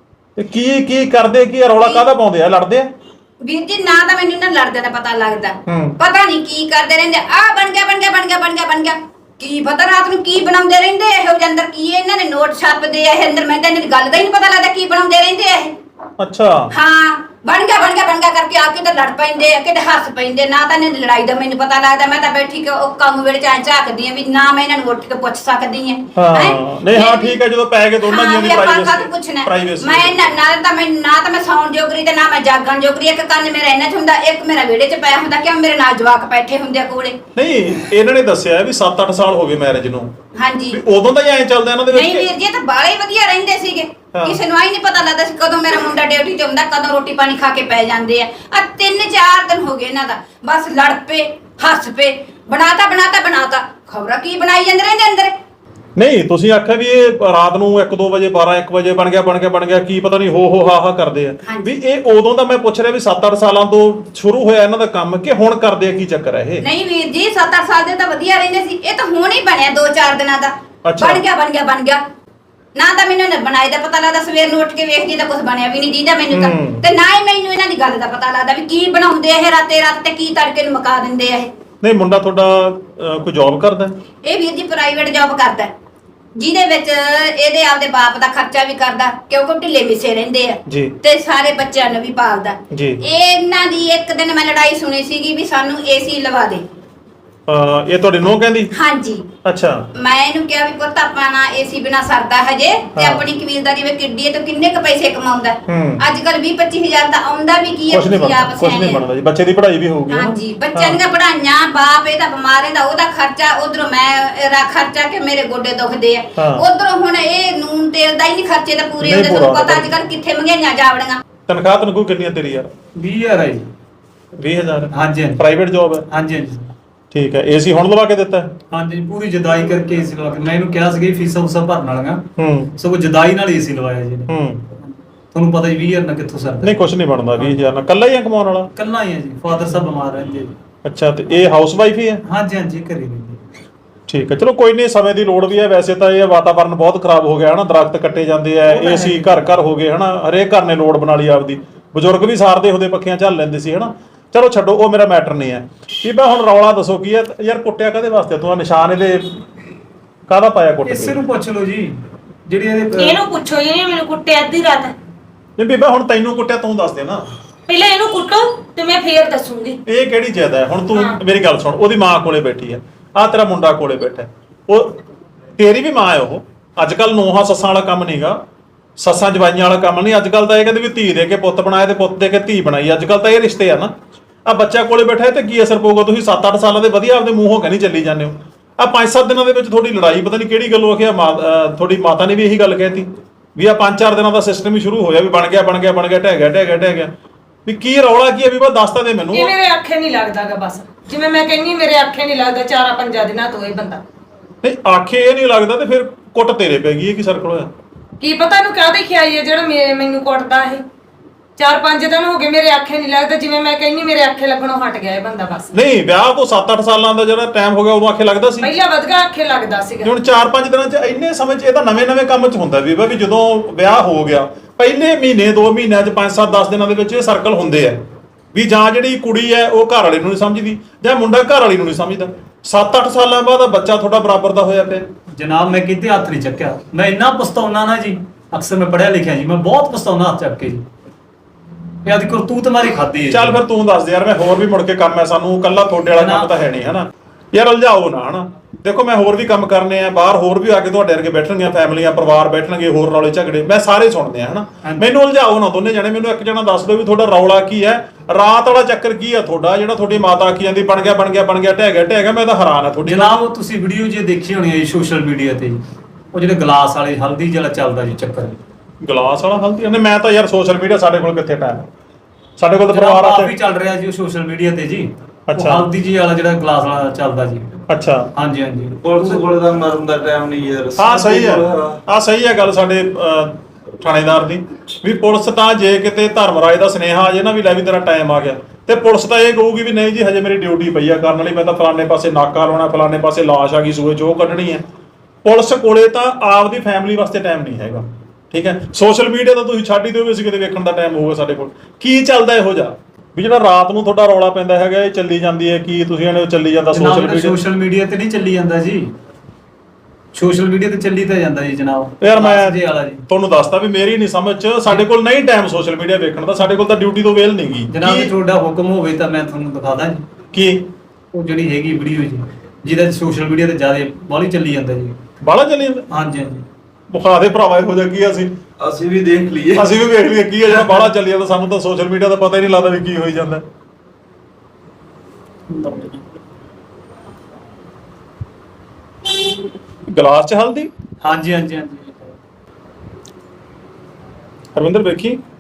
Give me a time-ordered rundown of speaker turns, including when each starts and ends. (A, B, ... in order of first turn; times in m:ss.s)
0:00.4-0:02.9 A
0:03.4-0:15.8 B
0:05.7-0:06.0 A
0:16.2-0:16.7 A
0:16.7-0:27.4 B
0:26.2-0:30.3 A
0:28.0-0:37.2 B
0:37.4-0:40.1 A
0:40.4-0:40.8 B
0:40.7-0:42.3 A
0:41.9-0:55.4 B
0:44.1-0:44.4 A
0:56.0-1:06.6 A
1:01.5-1:01.7 B
1:06.6-1:12.0 B
1:10.8-1:11.2 A
1:12.8-1:21.5 B
1:16.3-1:16.8 A
1:21.8-1:24.0 A
1:24.2-1:25.7 B
1:26.4-1:36.6 B
1:30.7-1:31.0 A
1:32.7-1:33.0 A
1:37.5-1:38.7 A
1:38.7-1:39.3 B
1:39.4-1:39.9 A
1:40.0-1:49.0 B
1:43.0-1:43.2 A
1:45.7-1:46.0 A
1:47.9-1:51.0 A
1:50.1-2:01.2 B
1:56.4-1:56.6 A
1:59.0-1:59.9 A
2:01.5-2:02.7 A
2:03.0-2:03.7 C
2:04.4-2:06.1 A
2:04.9-2:05.4 C
2:06.1-2:06.7 C
2:07.1-2:08.5 A
2:08.7-2:16.9 C
2:12.4-2:12.8 A
2:14.3-2:14.7 A
2:16.6-2:18.7 A
2:18.8-2:20.6 C
2:20.8-2:22.2 A
2:22.2-2:23.4 C
2:24.1-2:39.4 A
2:28.7-2:29.5 C
2:40.3-2:41.2 A
2:40.8-2:43.2 C
2:43.0-2:45.0 D
2:45.6-2:47.2 A
2:47.7-2:49.8 D
2:49.9-2:55.0 A
2:55.6-2:58.4 A
2:59.0-3:03.9 A
3:04.4-3:17.1 A
3:17.6-3:19.6 A
3:19.3-3:24.0 D
3:24.6-3:27.7 A
3:28.2-3:30.8 D
3:31.6-3:35.7 D
3:35.7-3:38.7 A
3:38.6-3:40.1 D
3:40.0-3:48.0 A
3:48.5-3:55.1 A
3:55.3-4:00.9 C
4:02.0-4:03.6 C
4:03.3-4:23.4 A
4:06.2-4:06.5 C
4:23.0-4:25.8 C
4:26.3-4:28.6 C
4:29.0-4:31.9 A
4:32.6-4:33.5 A
4:32.8-4:37.8 C
4:35.5-4:35.9 A
4:37.9-4:38.3 A
4:38.3-4:39.4 C
4:39.0-4:42.0 E
4:41.0-4:54.8 A
4:55.4-5:07.6 A
5:06.9-5:09.1 C
5:10.3-5:13.2 C
5:12.2-5:18.3 A
5:17.9-5:20.3 C
5:20.5-5:20.9 A
5:21.3-5:25.2 C
5:25.4-5:26.1 A
5:26.1-5:26.7 C
5:27.1-5:28.6 A
5:28.8-5:30.0 E
5:29.8-5:33.6 A
5:30.8-5:31.0 C
5:35.7-5:36.2 C
5:40.1-5:40.9 A
5:41.2-5:42.4 C
5:44.8-5:45.4 A